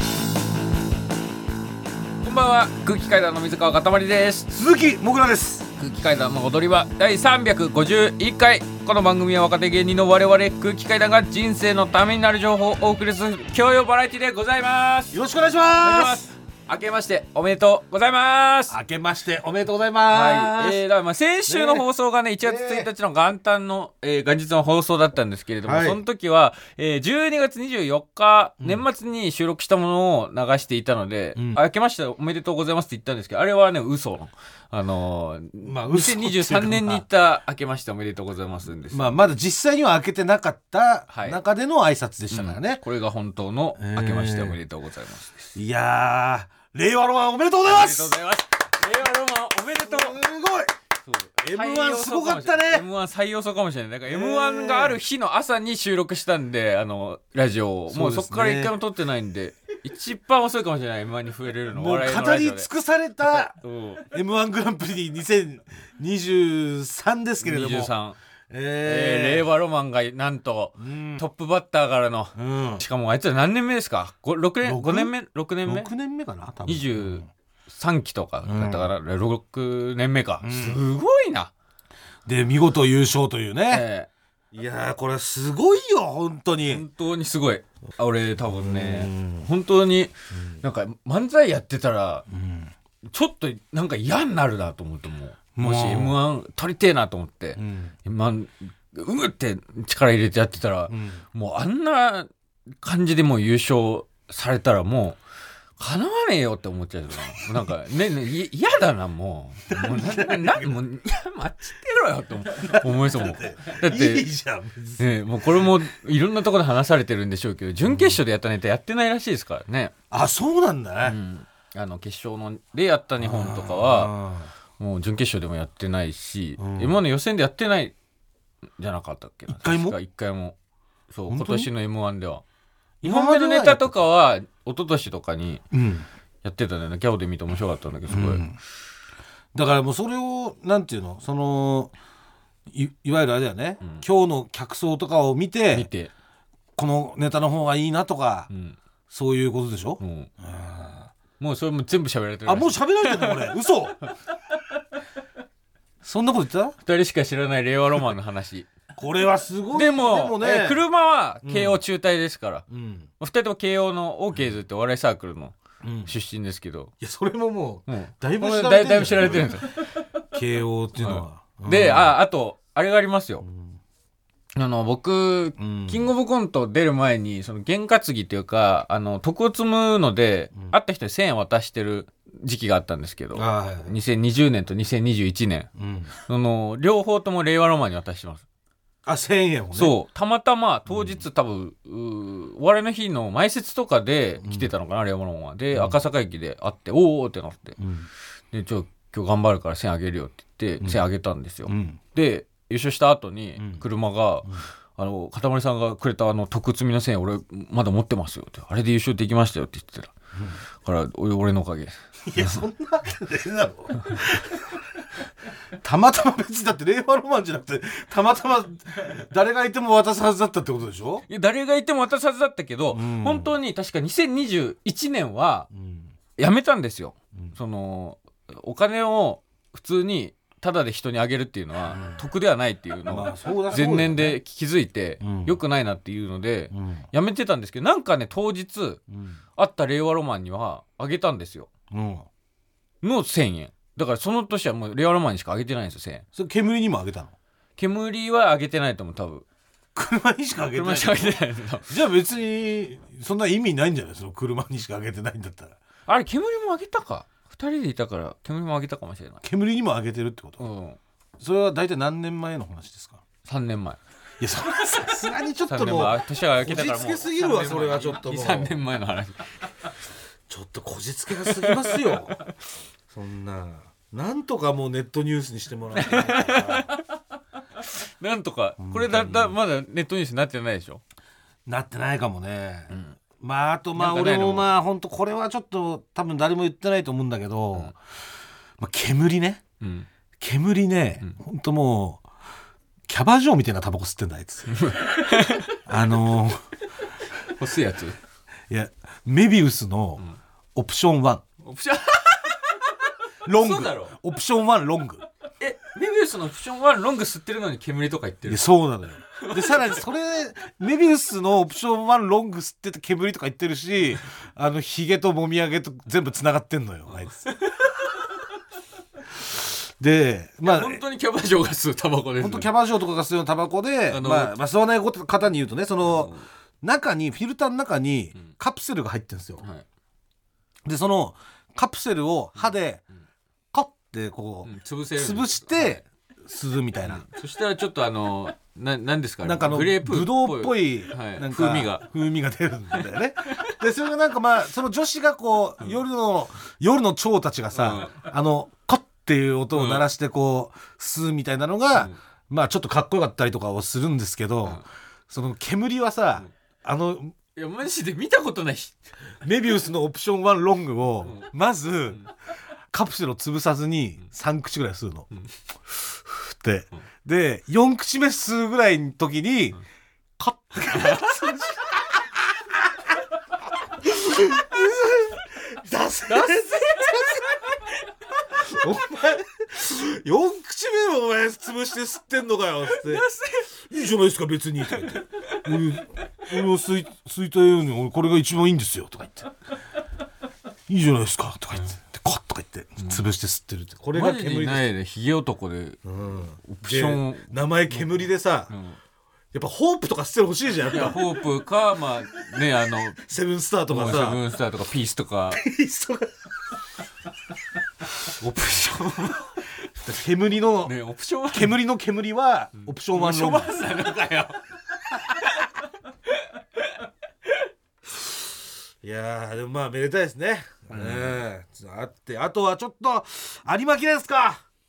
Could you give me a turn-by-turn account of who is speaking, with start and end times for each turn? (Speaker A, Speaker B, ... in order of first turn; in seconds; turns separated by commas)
Speaker A: 2.2-4.5, Speaker B: 4.5-5.6, Speaker A: 5.8-15.2, Speaker B: 15.1-16.3, Speaker A: 15.8-18.8, Speaker B: 18.7-20.8, Speaker A: 20.1-39.3, Speaker B: 21.5-21.9, Speaker B: 22.4-22.9, Speaker B: 25.6-26.0, Speaker B: 35.6-37.0, Speaker B: 38.9-42.8, Speaker A: 41.1-41.4, Speaker A: 42.3-45.4, Speaker B: 43.8-44.5, Speaker B: 45.5-48.1, Speaker A: 47.6-50.2, Speaker B: 49.8-50.7, Speaker A: 51.1-62.7, Speaker B: 51.4-52.8, Speaker B: 54.1-55.0, Speaker B: 57.9-58.7, Speaker B: 61.7-63.5, Speaker A: 63.2-64.1, Speaker B: 64.1-67.9, Speaker A: 67.4-68.2, Speaker B: 68.5-69.4, Speaker A: 68.8-75.9, Speaker B: 70.8-71.2, Speaker B: 72.3-72.8, Speaker B: 74.6-75.1, Speaker B: 75.7-77.3, Speaker A: 76.7-81.5, Speaker B: 78.4-78.9, Speaker B: 80.4-80.8, Speaker B: 82.2-83.8, Speaker A: 83.7-84.1, Speaker B: 84.5-86.8, Speaker A: 86.6-92.2, Speaker B: 88.5-89.5, Speaker B: 92.3-92.7, Speaker A: 93.1-102.3, Speaker B: 95.5-96.2, Speaker B: 97.6-97.9, Speaker B: 100.9-101.2, Speaker A: 102.8-105.2, Speaker A: 105.8-114.2, Speaker B: 109.7-110.8, Speaker B: 112.5-115.0, Speaker A: 115.0-119.9, Speaker B: 117.8-118.2, Speaker B: 120.1-121.2, Speaker A: 121.0-124.1, Speaker B: 123.2-124.5, Speaker A: 124.8-127.9, Speaker B: 126.6-127.0, Speaker A: 128.8-130.6, Speaker B: 129.5-129.9, Speaker A: 131.1-132.4, Speaker B: 131.3-131.7, Speaker B: 133.0-133.9, Speaker A: 133.0-135.6, Speaker B: 135.7-136.1, Speaker A: 136.4-138.4, Speaker B: 138.1-138.6, Speaker B: 139.5-141.9, Speaker B: 142.7-145.9, Speaker A: 145.7-146.1, Speaker B: 146.8-148.5, Speaker A: 148.5-148.8, Speaker B: 149.1-151.1, Speaker A: 150.0-150.3, Speaker A: 151.4-154.1, Speaker B: 152.4-154.0, Speaker B: 156.0-156.8, Speaker A: 156.8-158.7, Speaker B: 158.9-160.8, Speaker A: 159.7-162.6, Speaker B: 161.4-161.8, Speaker B: 162.7-163.1, Speaker A: 163.2-165.5, Speaker B: 165.8-166.1, Speaker A: 166.1-166.9, Speaker B: 167.0-169.7, Speaker A: 167.9-170.0, Speaker B: 170.3-172.1, Speaker A: 171.0-173.4, Speaker B: 173.4-173.8, Speaker A: 174.6-185.7, Speaker B: 175.6-176.1, Speaker B: 183.3-183.9, Speaker B: 185.8-186.1, Speaker A: 186.2-188.4, Speaker B: 189.1-189.9, Speaker A: 189.7-197.8, Speaker B: 190.9-191.2, Speaker B: 197.8-198.1, Speaker A: 198.5-210.1, Speaker B: 201.7-202.0, Speaker B: 203.6-203.8, Speaker A: 210.8-212.6, Speaker B: 212.2-214.6, Speaker B: 215.8-221.2, Speaker A: 221.3-225.7, Speaker B: 222.9-223.5, Speaker B: 225.7-226.1, Speaker A: 226.4-239.0, Speaker B: 231.9-232.2, Speaker B: 233.1-234.3, Speaker B: 235.2-235.6, Speaker B: 236.7-237.1, Speaker B: 239.1-239.4, Speaker A: 239.6-241.7, Speaker B: 241.9-242.2, Speaker A: 243.0-246.2, Speaker B: 246.3-247.3, Speaker A: 247.8-249.4, Speaker B: 249.9-255.8, Speaker A: 250.7-251.9, Speaker A: 256.1-259.4, Speaker B: 259.4-260.6, Speaker A: 260.6-261.0, Speaker B: 261.4-263.2, Speaker A: 263.4-264.0, Speaker B: 264.4-268.8, Speaker A: 265.7-269.5, Speaker B: 270.5-272.4, Speaker A: 271.4-272.5, Speaker B: 273.1-276.9, Speaker A: 275.9-277.0, Speaker A: 277.8-281.0, Speaker B: 278.8-279.5, Speaker B: 281.6-287.9, Speaker A: 282.9-283.1, Speaker A: 283.9-284.7, Speaker B: 288.8-289.6, Speaker A: 289.8-290.1, Speaker B: 290.4-292.2, Speaker B: 293.1-294.8, Speaker A: 294.7-295.8, Speaker B: 295.9-296.6, Speaker A: 297.6-298.1, Speaker B: 298.7-301.4, Speaker A: 301.6-302.9, Speaker B: 303.4-305.2, Speaker A: 303.4-304.1, Speaker A: 305.6-308.6, Speaker B: 308.4-317.4, Speaker A: 309.4-309.9, Speaker A: 317.1-317.9, Speaker B: 319.6-321.0, Speaker A: 320.6-322.7, Speaker B: 322.4-329.6, Speaker A: 324.1-324.5, Speaker A: 326.0-326.4, Speaker B: 330.8-333.0, Speaker B: 333.7-337.2, Speaker A: 334.6-336.0, Speaker A: 337.1-342.1, Speaker B: 339.4-357.3, Speaker A: 347.7-348.2, Speaker A: 349.7-350.0, Speaker A: 357.6-359.0, Speaker B: 359.4-362.2, Speaker A: 361.2-361.5, Speaker B: 362.9-365.3, Speaker B: 366.3-369.8, Speaker B: 370.4-372.8, Speaker A: 370.9-371.4, Speaker B: 374.0-377.6, Speaker A: 376.3-377.6, Speaker B: 378.5-389.5, Speaker A: 382.9-383.7, Speaker A: 385.1-385.6, Speaker B: 390.9-394.9, Speaker A: 394.1-396.0, Speaker B: 396.0-398.7, Speaker A: 396.6-399.0, Speaker B: 399.5-401.3, Speaker A: 400.9-403.2, Speaker B: 403.2-404.4, Speaker A: 403.9-405.6, Speaker B: 405.5-406.3, Speaker A: 408.4-409.5, Speaker B: 408.4-408.9, Speaker B: 410.0-410.9, Speaker A: 410.8-411.7, Speaker B: 411.5-413.8, Speaker A: 413.1-414.6, Speaker B: 419.0-424.6, Speaker A: 420.9-421.4